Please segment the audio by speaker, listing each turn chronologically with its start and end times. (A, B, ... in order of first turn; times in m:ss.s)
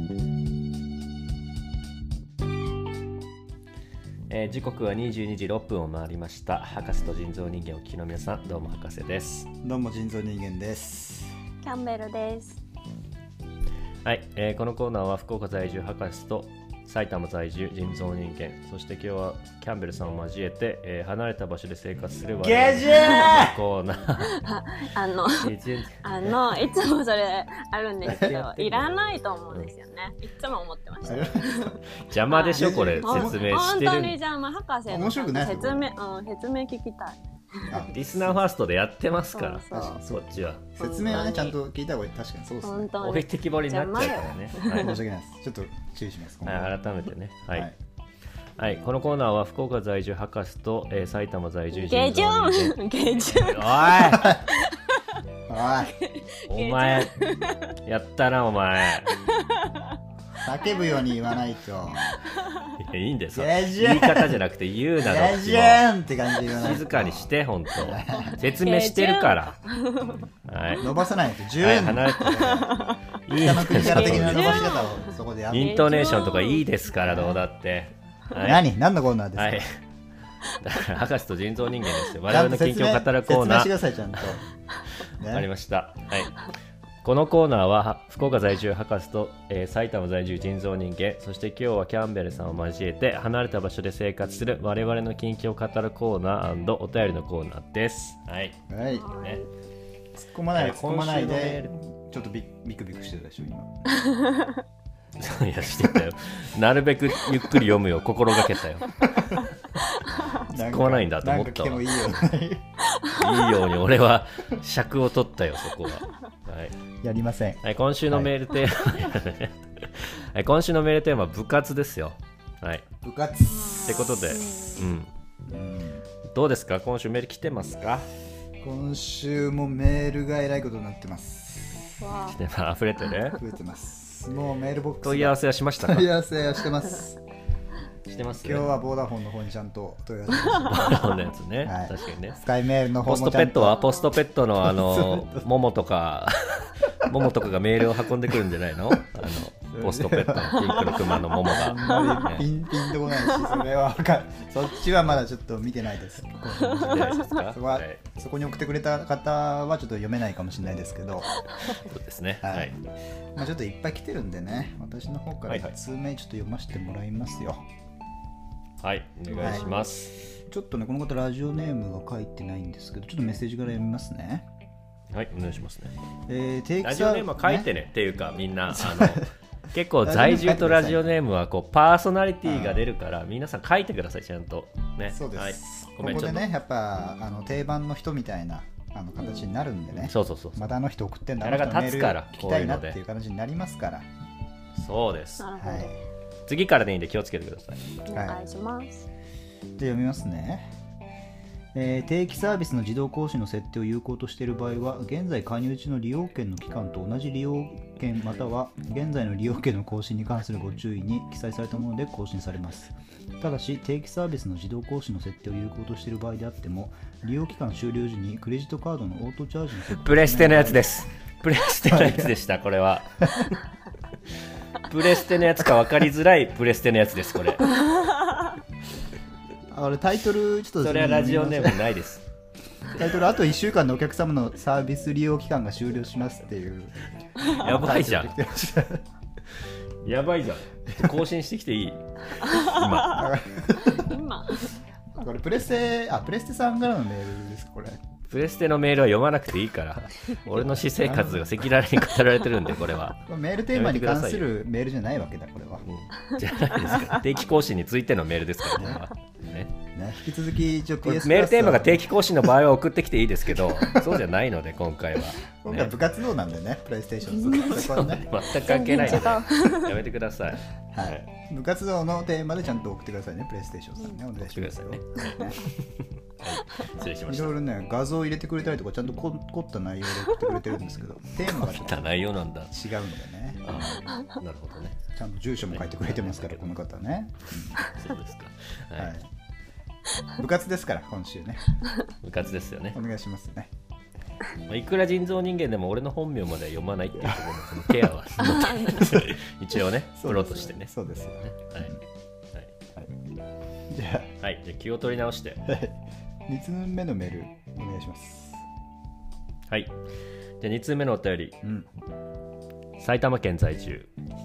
0:04.3-0:09.5 A
0:09.6-0:11.3 B
0:11.6-0:12.6 C
0:14.0-0:24.4 A
0:22.4-0:23.6 B
0:22.9-0:23.4 C
0:24.3-0:37.9 C
0:25.4-0:26.3 A
0:28.0-0:28.3 B
0:28.1-0:29.0 A
0:31.0-0:31.8 B
0:32.0-0:34.2 A
0:32.5-0:33.4 B
0:34.9-0:35.9 B
0:37.7-0:38.4 B
0:37.9-0:41.2 A
0:39.3-0:40.0 C
0:39.7-0:42.9 B
0:40.8-0:41.6 C
0:42.6-0:45.0 C
0:43.0-0:45.0 A
0:44.0-0:46.7 B
0:46.4-0:47.7 A
0:48.6-0:52.8 A
0:51.7-0:55.0 C
0:53.3-0:54.4 A
0:54.1-0:54.4 B
0:55.5-0:55.9 B
0:55.8-0:57.6 C
0:56.5-0:57.1 A
0:57.8-0:59.1 A
0:59.1-1:00.0 C
1:00.4-1:02.2 B
1:00.6-1:01.2 C
1:02.2-1:02.7 C
1:02.8-1:05.8 A
1:03.3-1:04.4 B
1:05.0-1:08.4 B
1:06.4-1:09.6 A
1:08.1-1:10.2 C
1:10.5-1:10.8 A
1:10.8-1:12.8 B
1:11.6-1:12.6 A
1:12.3-1:13.0 C
1:13.2-1:14.7 A
1:13.4-1:16.3 B
1:13.7-1:16.6 C
1:15.5-1:18.7 A
1:17.0-1:17.4 B
1:18.4-1:19.6 B
1:19.4-1:19.7 A
1:20.6-1:23.7 A
1:22.3-1:24.4 B
1:25.2-1:25.5 B
1:25.2-1:26.4 A
1:27.0-1:39.4 A
1:38.7-1:39.1 B
1:38.8-1:39.4 C
1:40.1-1:43.8 B
1:40.5-1:41.7 A
1:44.0-1:44.6 C
1:45.2-1:49.2 A
1:50.3-1:52.2 A
1:50.4-1:52.6 B
1:53.0-1:53.3 C
1:53.1-1:56.7 A
1:57.0-1:58.3 B
1:57.6-2:02.9 A
2:03.0-2:04.1 B
2:03.5-2:04.9 C
2:03.8-2:05.1 A
2:05.4-2:06.0 B
2:06.2-2:08.1 A
2:08.6-2:12.0 B
2:12.0-2:12.4 C
2:12.2-2:13.4 A
2:13.4-2:17.2 B
2:15.0-2:16.1 A
2:18.1-2:18.7 A
2:18.4-2:21.1 B
2:20.7-2:22.4 A
2:21.6-2:23.8 B
2:23.0-2:32.5 A
2:23.7-2:24.1 C
2:24.6-2:25.5 B
2:29.0-2:41.4 B
2:31.4-2:33.6 C
2:36.6-2:38.1 A
2:36.8-2:37.2 C
2:41.7-2:42.7 A
2:42.4-2:42.8 B
2:43.3-2:47.6 B
2:45.5-2:45.7 A
2:48.8-2:50.1 A
2:49.3-2:49.8 B
2:50.5-2:54.5 B
2:55.1-2:55.9 A
2:56.3-2:57.7 B
2:56.8-3:06.5 A
2:58.7-2:59.2 B
3:00.0-3:01.1 B
3:02.4-3:02.9 B
3:05.1-3:14.1 B
3:09.2-3:09.5 C
3:09.9-3:10.7 A
3:11.4-3:13.0 A
3:14.8-3:15.5 A
3:15.4-3:15.9 C
3:15.6-3:16.0 B
3:16.5-3:17.8 A
3:18.0-3:19.0 C
3:18.1-3:18.4 B
3:19.8-3:20.7 B
3:21.7-3:41.0 B
3:39.9-3:43.5 A
3:41.8-3:42.3 B
3:43.2-3:43.5 B
3:44.8-3:47.7 A
3:49.7-3:51.8 B
3:50.8-3:52.2 A
3:52.9-3:59.0 B
3:57.6-3:58.4 A
4:00.0-4:03.2 A
4:02.4-4:03.2 C
4:03.0-4:04.2 B
4:03.8-4:04.7 C
4:05.1-4:08.0 B
4:08.3-4:14.5 A
4:10.9-4:11.5 B
4:13.2-4:15.8 B
4:15.8-4:19.7 A
4:18.7-4:19.0 B
4:19.9-4:22.1 B
4:21.0-4:25.9 A
4:23.6-4:24.2 B
4:25.6-4:28.3 B
4:27.5-4:31.2 A
4:28.6-4:30.0 C
4:29.0-4:29.4 B
4:30.9-4:35.6 B
4:34.4-4:37.6 A
4:37.3-4:42.1 B
4:41.4-4:42.8 A
4:42.7-4:44.0 B
4:43.6-4:45.0 A
4:45.1-4:47.8 B
4:45.7-4:46.8 A
4:47.8-4:49.1 A
4:49.0-4:49.3 B
4:50.3-4:51.8 B
4:52.2-4:53.0 A
4:52.9-4:53.7 B
4:54.7-5:02.0 A
4:58.4-4:59.2 C
4:59.0-4:59.3 B
5:00.2-5:02.0 B
5:03.9-5:04.3 B
5:04.4-5:05.6 A
5:05.6-5:08.6 B
5:10.6-5:11.6 A
5:13.0-5:14.1 A